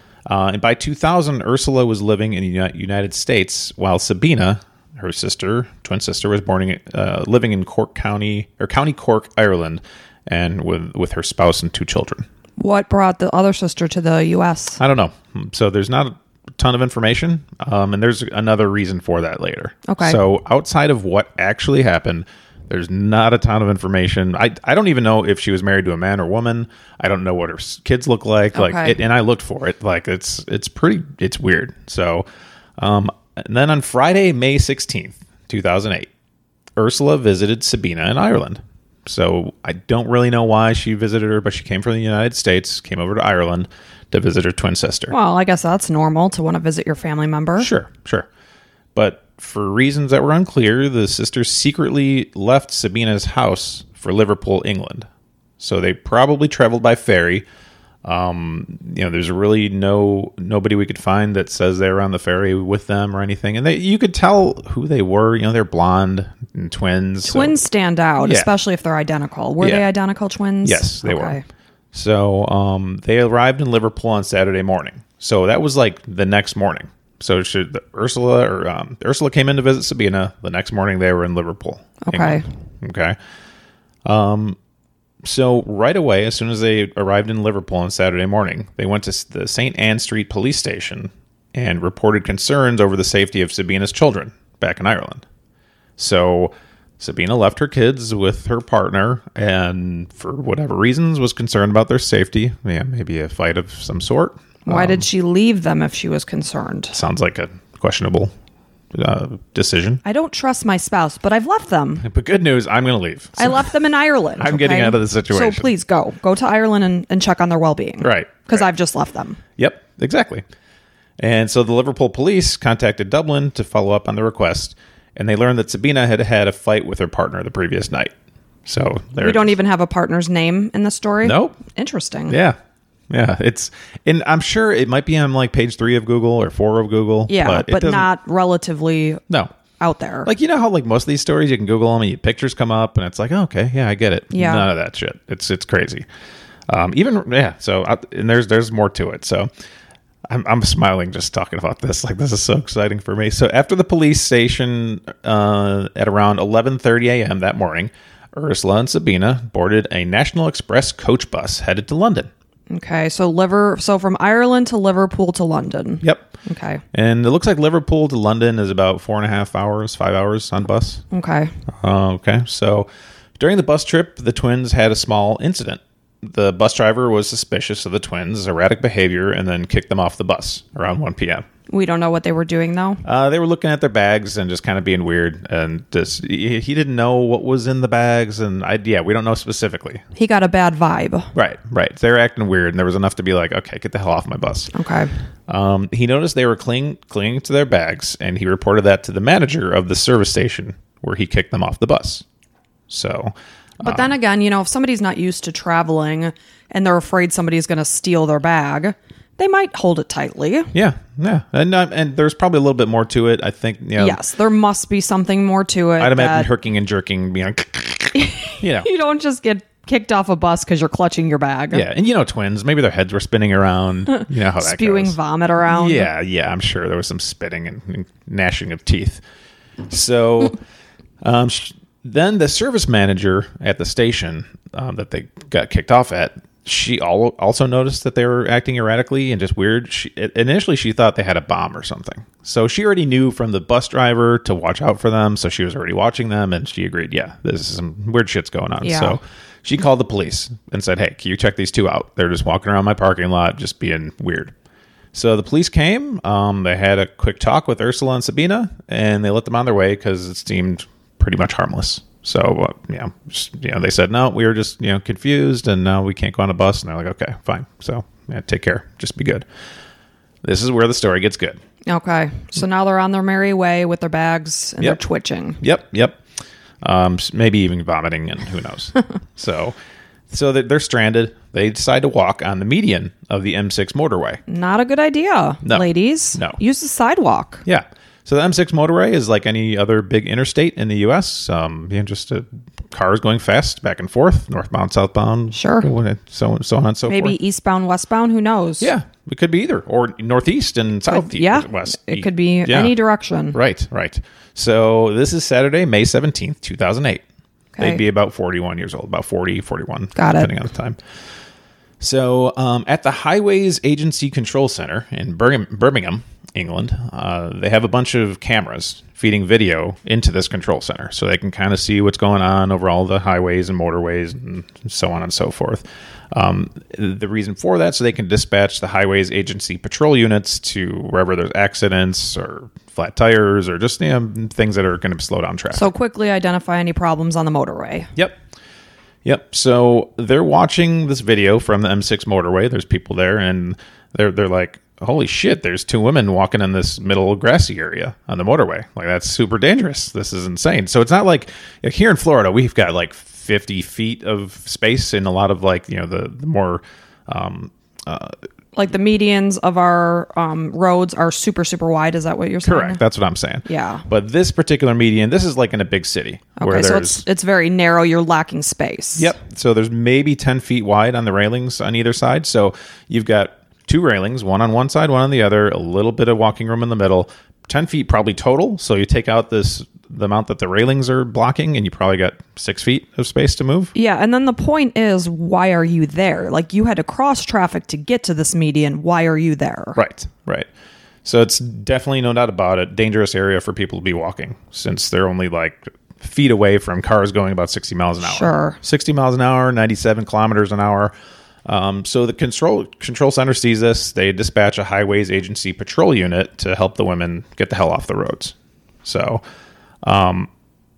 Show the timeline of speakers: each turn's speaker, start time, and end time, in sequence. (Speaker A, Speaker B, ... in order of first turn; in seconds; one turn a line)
Speaker A: 0.3-12.2
Speaker B: 12.6-14.8
Speaker A: 14.8-32.2
Speaker B: 19.9-20.2
Speaker B: 28.6-29.0
Speaker A: 32.8-36.1
Speaker A: 36.8-45.1
Speaker B: 45.1-47.7
Speaker A: 47.6-48.3
Speaker A: 49.0-55.1
Speaker A: 55.6-57.5
Speaker A: 58.0-67.6
Speaker B: 67.2-71.4
Speaker A: 68.2-68.5
Speaker A: 69.6-69.9
Speaker A: 70.6-71.4
Speaker A: 71.9-83.2
Speaker B: 82.0-82.5
Speaker A: 84.0-84.6
Speaker A: 85.2-95.2
Speaker A: 96.0-105.1
Speaker B: 104.7-107.0
Speaker A: 106.9-108.3
Speaker A: 108.9-110.0
Speaker B: 110.0-112.0
Speaker A: 112.0-113.7
Speaker B: 113.4-119.4
Speaker A: 114.4-115.7
Speaker A: 118.0-118.7
Speaker A: 119.6-120.5
Speaker A: 121.2-128.1
Speaker A: 128.7-129.5
Speaker B: 129.2-132.4
Speaker A: 131.2-131.6
Speaker A: 132.3-132.6
Speaker A: 133.1-138.1
Speaker B: 137.3-139.2
Speaker B: 139.8-140.3
Speaker A: 140.2-146.1
Speaker B: 144.3-144.7
Speaker A: 146.7-149.5
Speaker A: 150.3-162.3
Speaker B: 162.7-166.8
Speaker A: 166.0-166.3
Speaker A: 166.9-171.0
Speaker B: 171.1-171.5
Speaker A: 171.7-172.9
Speaker A: 173.4-181.4
Speaker B: 181.7-183.0
Speaker A: 183.0-190.0
Speaker B: 190.2-191.3
Speaker A: 191.3-194.7
Speaker B: 194.7-195.1
Speaker A: 195.5-202.2
Speaker A: 202.9-204.1
Speaker B: 203.8-210.7
Speaker A: 210.7-214.2
Speaker B: 214.0-216.5
Speaker A: 216.0-218.9
Speaker B: 218.2-221.8
Speaker A: 221.7-229.2
Speaker B: 224.1-226.1
Speaker A: 229.9-230.6
Speaker A: 231.2-254.5
Speaker B: 248.8-249.2
Speaker A: 255.1-269.4
Speaker A: 270.4-271.6
Speaker B: 271.9-275.6
Speaker A: 275.6-276.2
Speaker A: 276.8-279.8
Speaker A: 280.3-284.4
Speaker B: 284.5-287.6
Speaker A: 285.6-286.6
Speaker A: 287.6-297.4
Speaker B: 295.5-295.9
Speaker B: 297.1-298.9
Speaker A: 298.8-302.9
Speaker B: 301.1-303.6
Speaker A: 303.5-307.2
Speaker B: 307.8-308.0
Speaker A: 307.8-311.0
Speaker B: 310.2-310.5
Speaker A: 312.0-335.9
Speaker B: 335.7-338.1
Speaker A: 339.2-358.4
Speaker B: 358.8-363.0
Speaker A: 362.6-367.2
Speaker B: 363.7-364.1
Speaker B: 366.6-369.4
Speaker A: 369.2-383.9
Speaker B: 383.9-390.0
Speaker A: 390.0-390.7
Speaker A: 391.2-401.1
Speaker B: 398.2-398.8
Speaker A: 401.6-409.4
Speaker A: 410.0-410.5